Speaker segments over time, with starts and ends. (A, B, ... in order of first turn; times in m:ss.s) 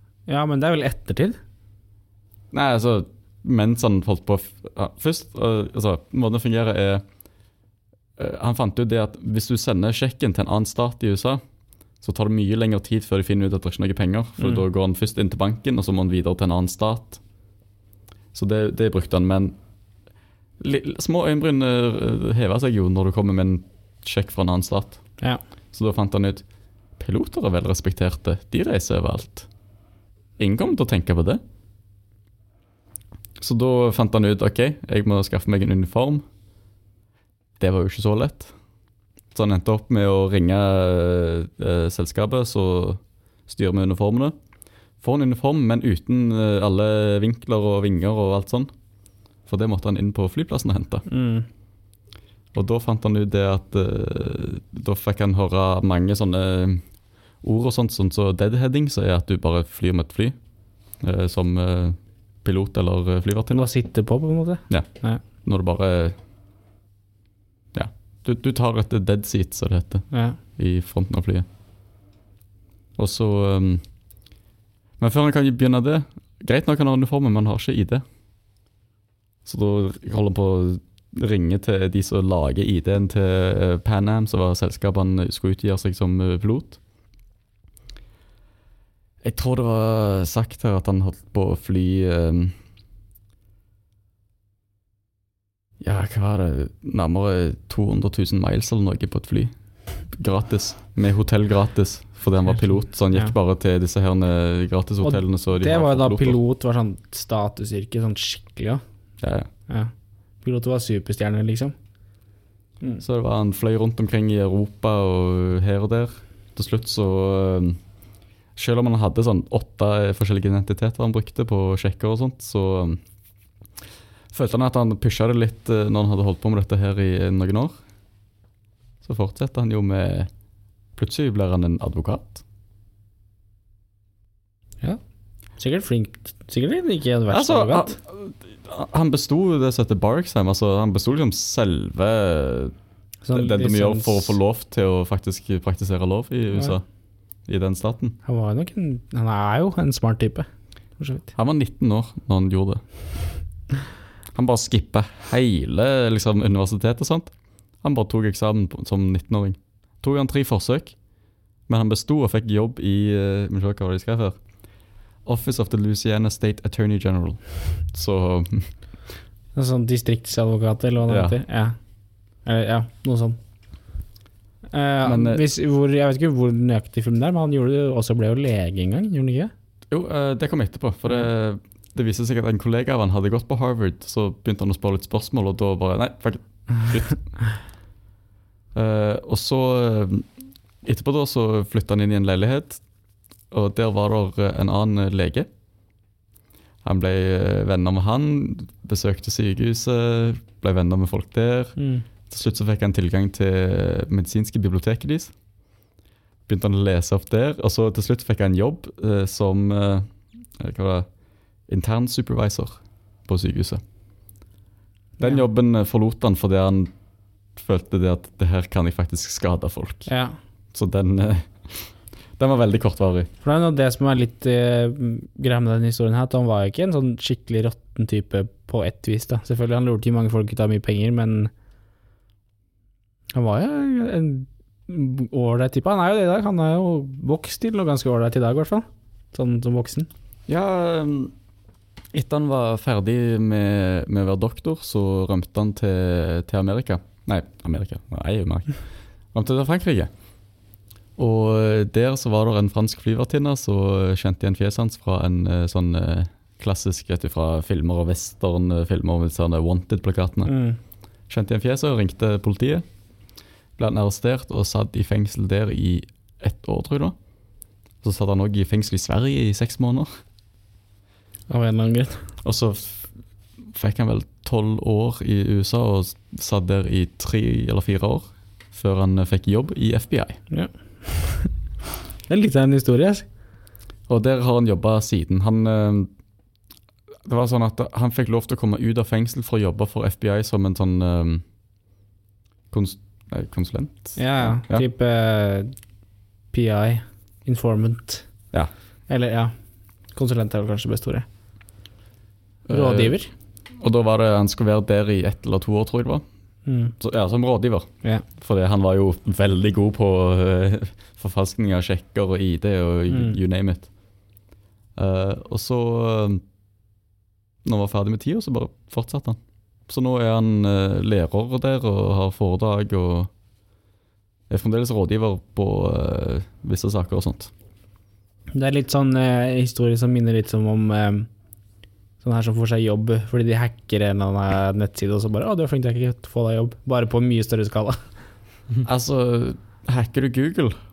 0:00.3-0:01.4 A
0:02.5-0:07.0 B
0:08.2-0:11.4 B
0:12.0-0:17.2 B
0:18.3-0:19.5 B
0:20.6-0:25.0 B
0:25.7-0:26.4 B
0:27.0-0:29.5 B
0:30.4-0:31.4 B
0:33.4-0:36.2 B
0:37.6-0:38.5 B
0:39.3-0:44.3 B
0:45.0-0:48.7 B
0:49.4-0:51.0 B
0:51.1-0:51.5 A
0:52.5-0:56.8 B
0:57.4-1:00.3 B
1:01.0-1:03.7 B
1:03.5-1:05.2 A
1:05.4-1:06.2 B
1:07.7-1:11.4 B
1:10.1-1:10.4 A
1:13.0-1:13.8 B
1:15.0-1:18.0 B
1:19.4-1:26.8 B
1:29.2-1:32.5 B
1:35.8-1:39.5 B
1:40.1-1:46.4 B
1:45.0-1:48.8 A
1:49.2-1:49.5 B
1:50.4-1:51.7 A
1:53.0-1:57.8 B
1:58.6-2:03.0 B
2:04.3-2:07.8 B
2:09.0-2:10.3 B
2:11.0-2:12.4 B
2:15.6-2:18.0 A
2:17.3-2:22.7 B
2:23.2-2:24.4 A
2:23.3-2:26.8 B
2:27.5-2:28.2 B
2:28.2-2:30.5 A
2:31.0-2:31.3 A
2:31.4-2:32.8 B
2:34.3-2:37.3 B
2:37.8-2:40.9 B
2:41.7-2:44.4 B
2:45.2-2:48.7 B
2:49.5-2:51.8 A
2:51.0-2:51.4 B
2:52.4-2:53.4 A
2:54.7-2:59.5 A
2:55.0-2:55.4 B
2:59.9-3:07.2 B
3:08.7-3:10.3 B
3:10.8-3:12.8 B
3:13.5-3:15.5 B
3:16.8-3:21.8 B
3:21.8-3:22.0 A
3:22.3-3:25.3 B
3:26.5-3:31.1 B
3:31.7-3:33.8 B
3:35.2-3:36.9 B
3:37.6-3:40.1 B
3:40.1-3:40.4 A
3:40.7-3:43.3 B
3:43.4-3:51.5 A
3:53.3-4:00.1 A
4:00.5-4:01.3 B
4:02.1-4:08.8 B
4:09.3-4:10.1 B
4:11.2-4:20.5 B
4:20.4-4:20.8 A
4:21.3-4:22.8 B
4:23.8-4:27.1 B
4:28.0-4:30.1 B
4:31.5-4:32.2 A
4:32.4-4:33.1 B
4:33.7-4:40.4 B
4:40.5-4:41.5 A
4:42.3-4:43.2 A
4:44.1-4:46.1 B
4:47.2-4:51.4 B
4:52.7-4:54.8 B
4:54.2-4:55.7 A
4:56.5-4:58.2 A
4:59.1-4:59.5 A
5:00.1-5:01.2 A
5:02.7-5:03.2 B
5:02.7-5:03.3 A
5:03.8-5:06.2 B
5:06.6-5:06.9 A
5:07.0-5:13.9 B
5:13.1-5:13.4 A
5:15.0-5:16.4 B
5:17.6-5:23.3 B
5:24.5-5:27.5 B
5:28.5-5:31.3 A
5:32.2-5:38.0 A
5:38.8-5:40.8 B